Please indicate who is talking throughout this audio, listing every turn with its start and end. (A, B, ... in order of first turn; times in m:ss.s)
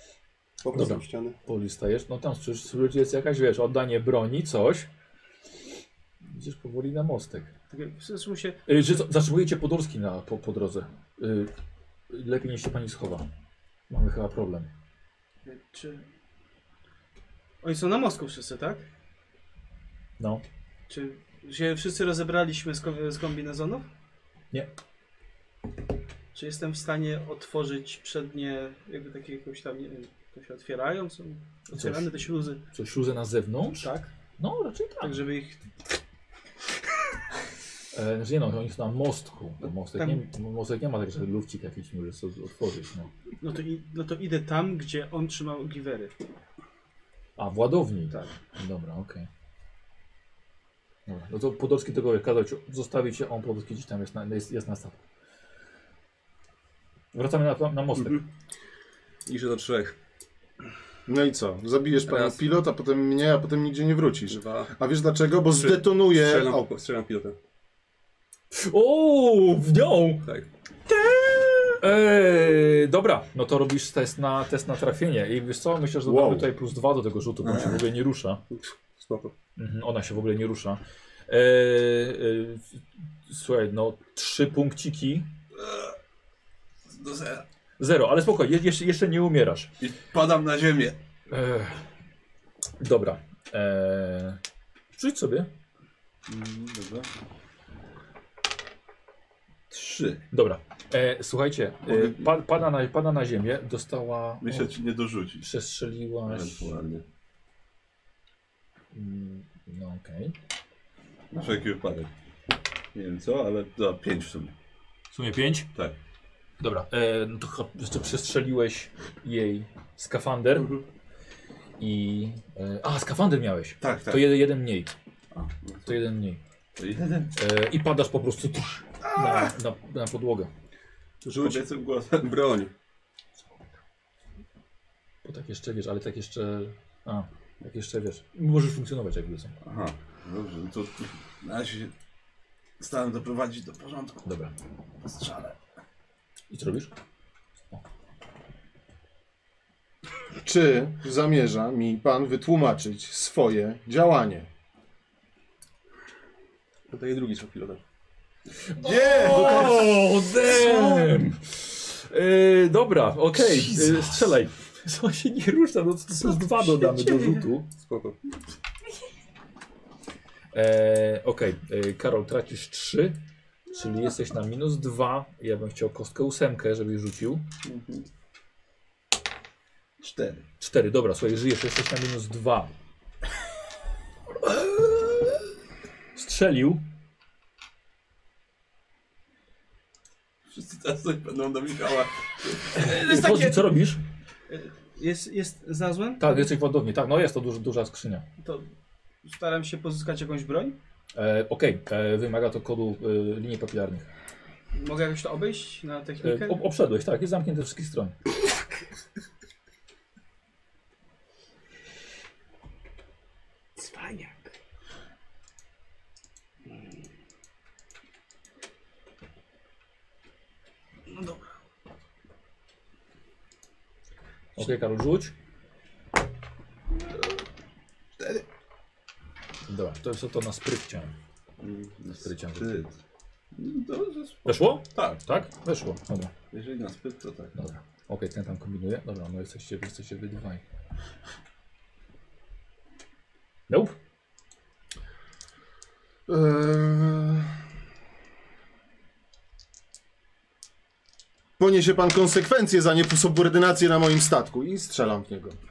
0:00.6-0:01.4 A
0:00.7-0:04.9 B
0:06.2-0:07.5 B
0:07.7-0:08.6 C
0:08.7-0:11.5 B
0:12.1-0:13.3 B
0:13.9-0:14.7 B
0:15.4-0:16.0 C
0:17.6-0:18.8 C
0:20.9-0:23.8 C
0:26.3-0:32.6 C
0:31.7-0:35.2 B
0:33.8-0:34.1 C
0:35.0-0:35.6 C
0:37.9-0:43.1 B
0:43.4-0:46.1 C
0:47.4-0:49.3 B
0:51.1-0:55.0 B
0:57.1-0:58.2 B
0:58.0-0:58.2 A
0:59.2-0:59.9 A
1:01.0-1:06.7 D
1:02.1-1:02.4 A
1:04.3-1:04.7 A
1:05.5-1:07.4 A
1:08.5-1:10.3 B
1:11.0-1:18.4 B
1:16.0-1:16.4 D
1:17.4-1:17.8 E
1:18.5-1:19.3 A
1:19.6-1:25.3 B
1:25.6-1:25.9 E
1:26.9-1:27.4 E
1:27.8-1:29.7 B
1:29.8-1:31.0 E
1:31.3-1:31.8 B
1:32.8-1:34.4 B
1:34.9-1:35.5 B
1:36.3-1:37.1 E
1:39.7-1:40.2 E
1:40.3-1:44.7 B
1:44.4-1:45.4 E
1:45.4-1:46.8 B
1:46.3-1:47.0 E
1:48.9-1:50.3 B
1:51.3-1:52.1 E
1:52.9-1:54.5 E
1:55.1-1:55.7 B
1:56.6-2:00.7 B
2:00.6-2:00.8 A
2:01.8-2:04.9 B
2:03.8-2:04.4 E
2:05.3-2:06.0 E
2:05.8-2:06.4 B
2:06.8-2:07.3 E
2:07.3-2:10.5 B
2:11.2-2:11.6 A
2:11.3-2:12.4 E
2:12.2-2:12.7 A
2:15.2-2:19.6 B
2:19.6-2:21.9 E
2:22.8-2:24.2 E
2:24.2-2:24.5 B
2:25.0-2:25.6 E
2:26.5-2:26.9 B
2:30.4-2:34.5 D
2:36.9-2:37.8 A
2:38.8-2:47.7 B
2:38.8-2:40.0 E
2:39.2-2:39.7 D
2:46.2-2:47.5 C
2:47.7-2:48.2 A
2:50.5-2:53.2 B
2:53.7-2:57.4 B
2:57.6-2:58.0 E
3:00.0-3:00.4 E
3:00.6-3:02.7 B
3:04.4-3:05.4 B
3:06.1-3:06.8 B
3:10.5-3:12.7 E
3:12.7-3:14.0 B
3:12.7-3:13.7 C
3:14.5-3:16.5 C
3:16.2-3:18.2 B
3:18.4-3:18.6 C
3:19.2-3:20.8 C
3:21.1-3:24.1 B
3:24.7-3:26.6 C
3:26.2-3:28.2 B
3:33.8-3:34.5 C
3:41.1-3:41.4 C
3:44.6-3:45.3 B
3:48.2-3:48.4 E
3:49.7-3:51.1 B
3:51.6-3:52.9 E
3:52.2-3:52.8 B
3:53.5-3:55.2 E
3:54.4-3:56.3 B
3:56.5-3:57.5 E
3:57.5-4:00.6 B
4:03.7-4:03.9 B
4:06.3-4:07.5 D
4:11.6-4:15.6 D